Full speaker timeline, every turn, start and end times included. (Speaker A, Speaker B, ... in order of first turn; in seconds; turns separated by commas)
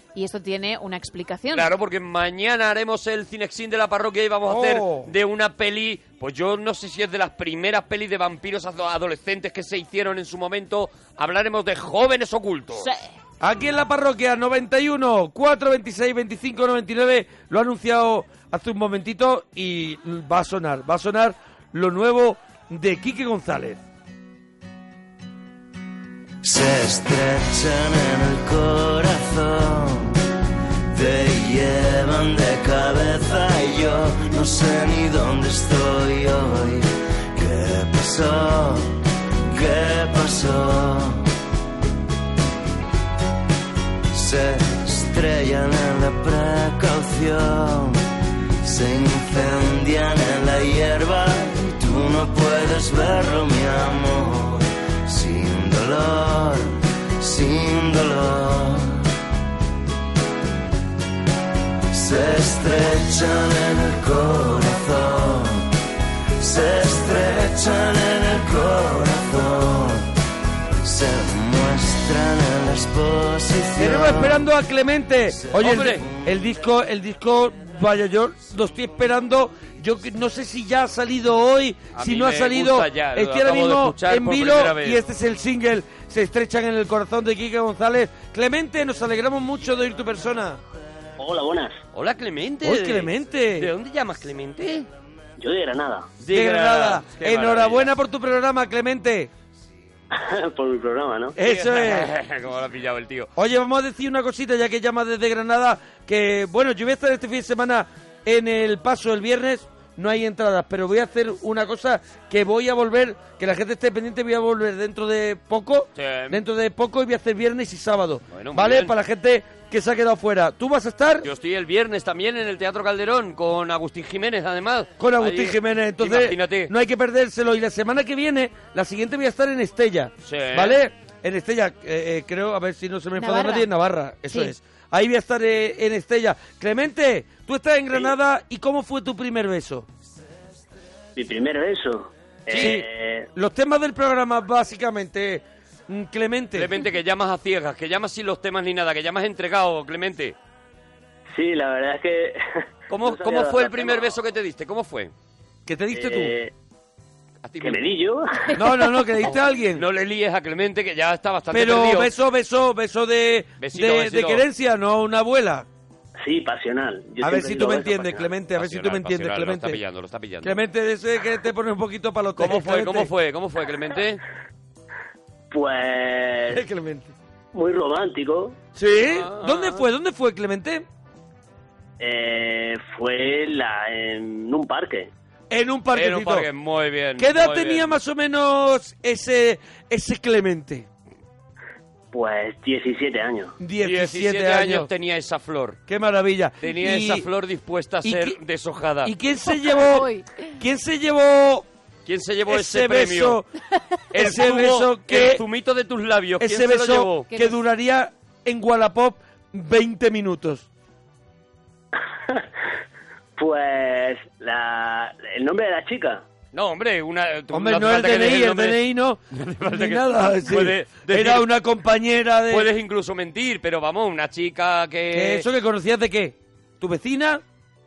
Speaker A: 0.1-1.7, Speaker B: 1.5-12.9, Speaker C: 4.5-5.1, Speaker A: 12.7-13.1, Speaker C: 13.4-23.8, Speaker D: 26.4-30.2, Speaker D: 30.9-39.0, Speaker D: 39.5-41.2, Speaker D: 44.1-48.0, Speaker D: 48.6-59.0, Speaker D: 61.9-65.7, Speaker D: 66.4-70.1, Speaker D: 70.8-74.4, Speaker C: 73.8-90.6, Speaker D: 75.4-76.3, Speaker B: 75.6-76.0, Speaker B: 81.9-85.0, Speaker E: 91.2-91.8, Speaker B: 91.9-94.9, Speaker C: 92.6-93.7, Speaker E: 95.4-96.1, Speaker B: 96.2-97.9, Speaker C: 96.3-99.3, Speaker E: 100.1-101.4, Speaker C: 101.3-102.1, Speaker B: 101.4-103.3, Speaker C: 103.4-121.3, Speaker B: 116.0-116.4, Speaker B: 118.3-118.9, Speaker B: 121.2-126.7, Speaker C: 125.0-139.9, Speaker B: 130.2-130.8, Speaker A: 133.2-133.7, Speaker E: 141.2-143.3, Speaker B: 142.5-142.8, Speaker C: 142.5-146.7, Speaker B: 146.6-150.3, Speaker E: 151.3-152.4, Speaker B: 152.9-155.1, Speaker E: 153.0-154.2, Speaker C: 155.7-156.3, Speaker E: 155.9-156.5, Speaker B: 157.4-157.9, Speaker E: 157.6-158.6, Speaker C: 158.5-159.8, Speaker B: 159.7-162.1, Speaker C: 161.5-165.7, Speaker B: 163.6-164.4, Speaker E: 166.2-168.3, Speaker C: 167.2-169.8, Speaker B: 168.5-170.6, Speaker C: 170.4-173.1, Speaker B: 172.4-174.2, Speaker E: 175.5-176.6, Speaker C: 176.5-177.1, Speaker E: 177.5-178.6, Speaker C: 178.7-180.8, Speaker B: 179.0-179.8, Speaker E: 182.0-185.1, Speaker C: 185.5-186.5, Speaker B: 185.9-187.9, Speaker C: 187.2-190.9, Speaker E: 192.1-193.6, Speaker C: 193.6-194.9, Speaker B: 193.8-195.8, Speaker C: 195.9-197.2, Speaker B: 196.6-199.1, Speaker C: 198.0-198.4, Speaker C: 199.0-200.1, Speaker A: 199.5-200.5, Speaker C: 200.6-201.7, Speaker B: 202.1-203.4, Speaker C: 202.5-203.4, Speaker B: 204.1-207.3, Speaker C: 204.1-205.4, Speaker C: 206.4-210.7, Speaker A: 207.3-207.6, Speaker E: 213.3-216.2, Speaker B: 216.5-218.8, Speaker C: 217.5-222.7, Speaker B: 219.3-221.5, Speaker B: 222.5-225.5, Speaker C: 225.1-227.4